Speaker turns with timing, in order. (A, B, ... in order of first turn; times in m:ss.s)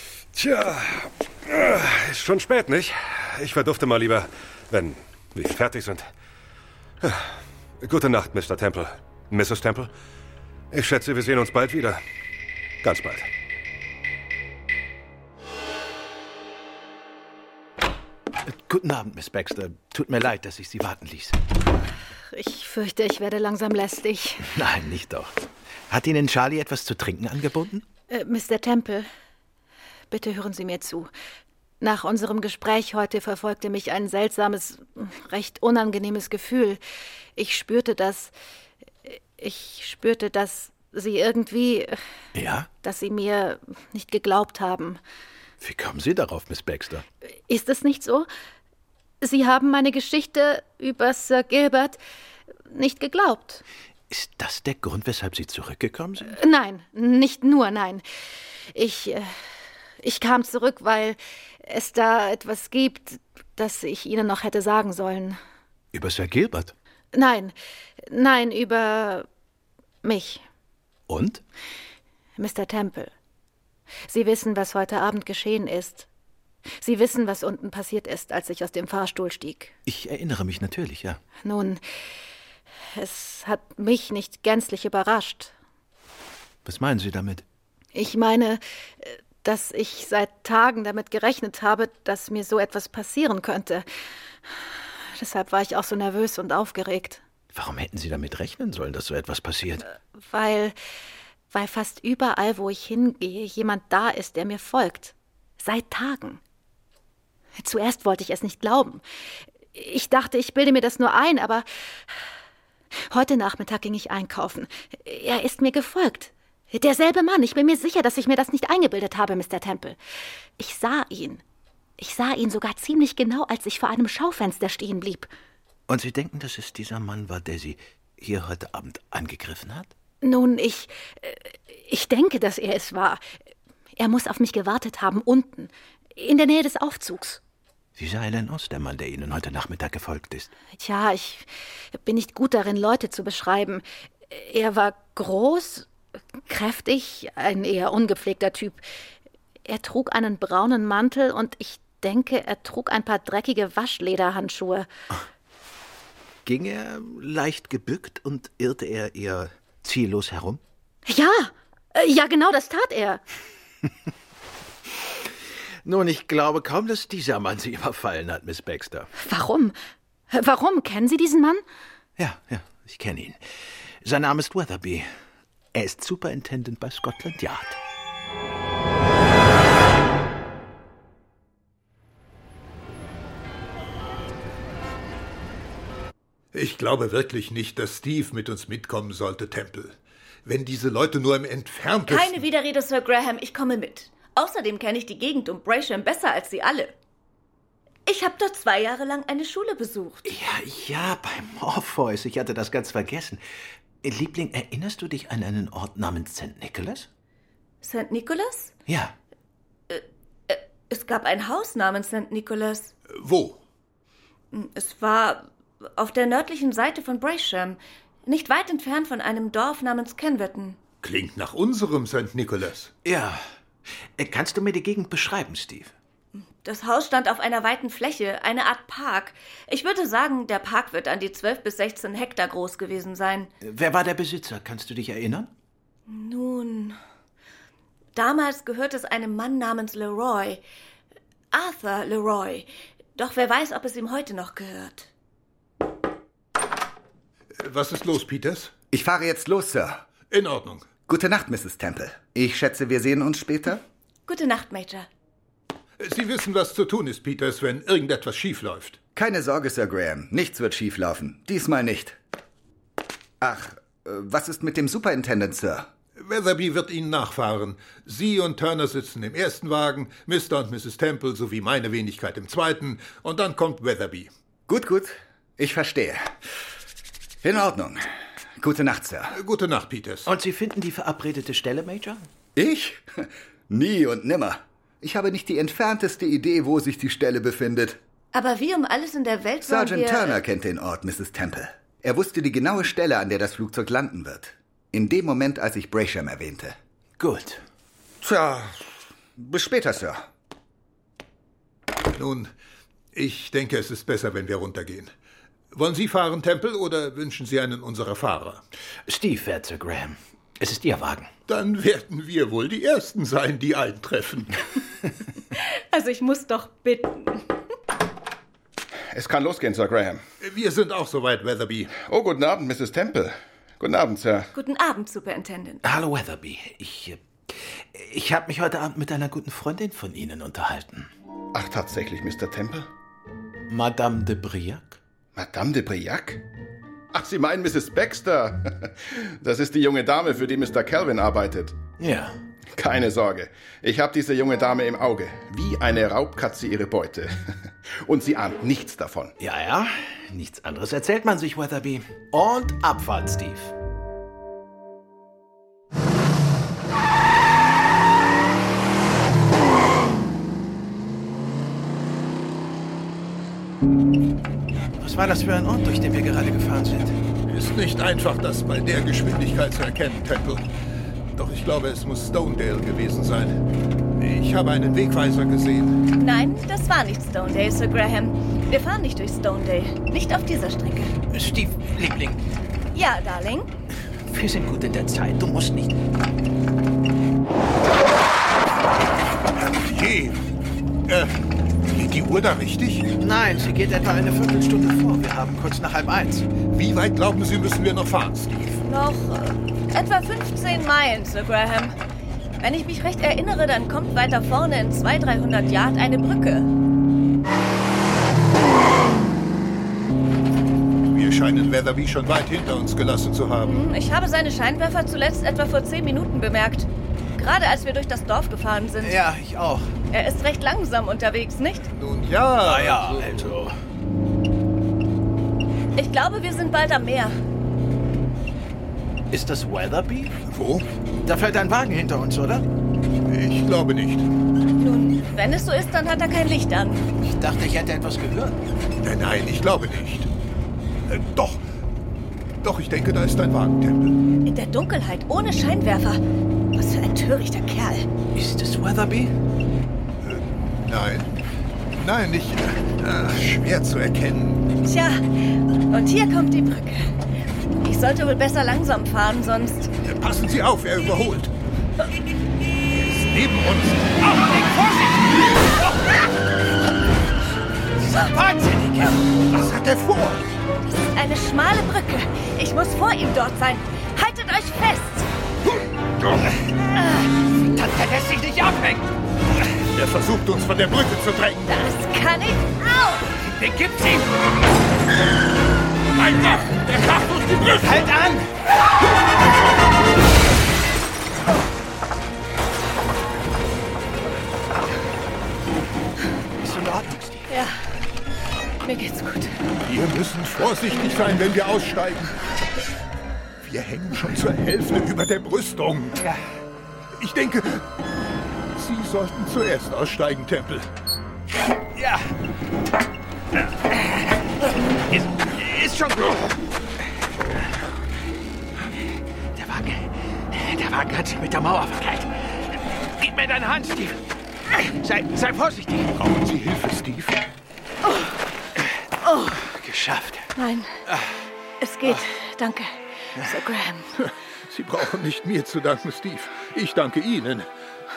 0:00.3-0:06.1 A
0:07.0-0:09.9 A
0:10.7-0:12.0 A
0:12.8-0:13.3 A
0:18.4-0:21.4 B
0:22.3-0:24.5 C
0:24.4-0:25.3 B
0:25.9-0:27.8 B
0:28.1-0:29.1 C
0:30.1-0:31.1 C
0:31.8-0:36.8 C
0:37.4-0:38.3 C
0:39.0-0:42.0 C
0:42.3-0:42.7 B
0:42.8-0:45.0 C
0:45.6-0:47.0 B
0:47.3-0:48.3 C
0:49.2-0:52.0 C
0:52.7-0:53.6 C
0:54.1-0:56.4 B
0:56.3-0:58.0 C
0:58.7-0:59.3 C
1:00.0-1:05.4 C
1:05.9-1:06.7 B
1:07.1-1:07.5 C
1:08.1-1:09.2 C
1:10.0-1:10.4 C
1:11.1-1:11.4 B
1:12.4-1:13.1 C
1:14.1-1:16.1 C
1:16.8-1:19.7 C
1:19.8-1:21.2 B
1:21.4-1:21.8 C
1:23.0-1:25.5 C
1:26.6-1:27.4 B
1:27.9-1:33.8 C
1:35.2-1:37.2 C
1:37.5-1:39.9 B
1:40.2-1:40.7 C
1:41.5-1:46.4 C
1:47.6-1:49.0 C
1:49.7-1:51.6 C
1:53.1-2:00.0 C
2:00.6-2:01.4 C
2:02.0-2:05.3 C
2:05.9-2:09.9 B
2:10.2-2:13.2 C
2:14.0-2:17.4 C
2:18.0-2:20.5 B
2:20.8-2:25.9 C
2:26.4-2:28.8 C
2:29.6-2:34.9 C
2:36.4-2:40.6 B
2:41.0-2:43.2 C
2:45.8-2:49.1 B
2:49.2-2:49.7 C
2:50.3-2:51.6 C
2:52.2-2:53.4 B
2:54.0-2:55.1 B
2:55.7-2:57.8 B
3:06.5-3:12.4 D
3:12.1-3:16.9 E
3:18.0-3:20.3 E
3:20.2-3:23.4 B
3:24.0-3:27.1 B
3:27.8-3:28.7 E
3:28.9-3:29.1 B
3:29.9-3:32.9 E
3:33.1-3:33.6 D
3:34.5-3:40.8 E
3:41.0-3:42.9 D
3:43.0-3:43.4 B
3:44.2-3:45.9 B
3:46.4-3:53.5 E
3:53.6-3:55.5 B
3:56.1-3:57.0 E
3:58.1-4:00.6 E
4:01.5-4:05.1 E
4:07.6-4:08.7 D
4:08.9-4:10.0 F
4:10.3-4:10.9 D
4:11.1-4:13.8 F
4:14.3-4:15.1 E
4:16.0-4:19.0 D
4:19.1-4:22.2 F
4:23.4-4:25.9 F
4:26.2-4:34.3 D
4:34.7-4:36.3 F
4:37.4-4:38.0 F
4:38.6-4:39.3 F
4:39.3-4:40.3 D
4:40.2-4:42.2 B
4:42.6-4:48.0 F
4:48.3-4:50.4 E
4:49.6-4:56.8 F
4:57.2-4:57.6 B
4:58.2-5:00.2 F
5:02.1-5:02.5 D
5:03.1-5:05.1 D
5:05.7-5:08.6 D
5:09.1-5:11.3 B
5:11.5-5:14.6 D
5:15.5-5:17.5 E
5:19.1-5:20.2 G
5:20.4-5:21.9 D
5:21.9-5:24.5 G
5:24.5-5:25.8 E
5:25.8-5:31.1 B
5:31.5-5:32.9 G
5:33.7-5:35.0 B
5:35.3-5:36.4 G
5:37.1-5:41.8 G
5:42.0-5:42.4 B
5:42.7-5:49.3 G
5:49.4-5:53.7 B
6:05.0-6:07.2 B
6:07.5-6:10.6 D
6:11.3-6:13.6 D
6:14.2-6:16.0 D
6:16.2-6:21.1 E
6:21.3-6:22.4 B
6:22.9-6:23.7 E
6:24.3-6:26.0 B
6:29.6-6:30.4 D
6:31.1-6:31.3 D
6:31.9-6:33.1 D
6:33.2-6:36.5 B
6:36.7-6:38.8 D
6:38.9-6:41.9 E
6:42.6-6:46.7 E
6:51.1-6:53.7 D
6:53.6-6:59.2 E
6:59.0-6:59.9 B
7:00.1-7:01.9 E
7:01.9-7:03.4 D
7:02.6-7:03.7 B
7:06.0-7:07.4 E
7:09.3-7:10.4 B
7:10.5-7:10.9 D
7:11.2-7:12.7 B
7:13.2-7:14.3 D
7:14.8-7:17.0 E
7:17.2-7:18.6 B
7:19.0-7:20.3 D
7:21.1-7:21.6 D
7:22.6-7:24.2 D
7:24.4-7:26.2 E
7:26.7-7:28.1 E
7:28.3-7:29.3 B
7:30.2-7:31.3 D
7:31.9-7:34.7 D
7:34.8-7:37.1 E
7:37.8-7:39.9 E
7:40.0-7:41.5 D
7:42.9-7:44.1 D
7:44.2-7:46.1 B
7:48.0-7:49.6 B
7:49.6-7:50.4 D
7:50.9-7:55.3 E
7:56.9-7:57.3 E
7:57.6-7:59.1 B
7:59.7-8:01.7 D
8:01.6-8:03.3 E
8:03.4-8:04.3 B
8:06.2-8:07.9 D
8:07.6-8:08.5 B
8:16.6-8:17.5 B
8:17.5-8:17.8 E
8:18.8-8:19.6 E
8:19.8-8:22.4 D
8:23.6-8:26.2 D
8:27.2-8:27.8 D
8:28.7-8:30.9 D
8:31.9-8:32.3 B
8:33.7-8:36.6 B
8:39.5-8:46.1 B
8:46.2-8:47.4 D
8:49.5-8:50.5 B
8:50.6-8:51.0 E
8:51.0-8:51.4 B
8:51.8-8:54.1 E
8:54.2-8:57.7 D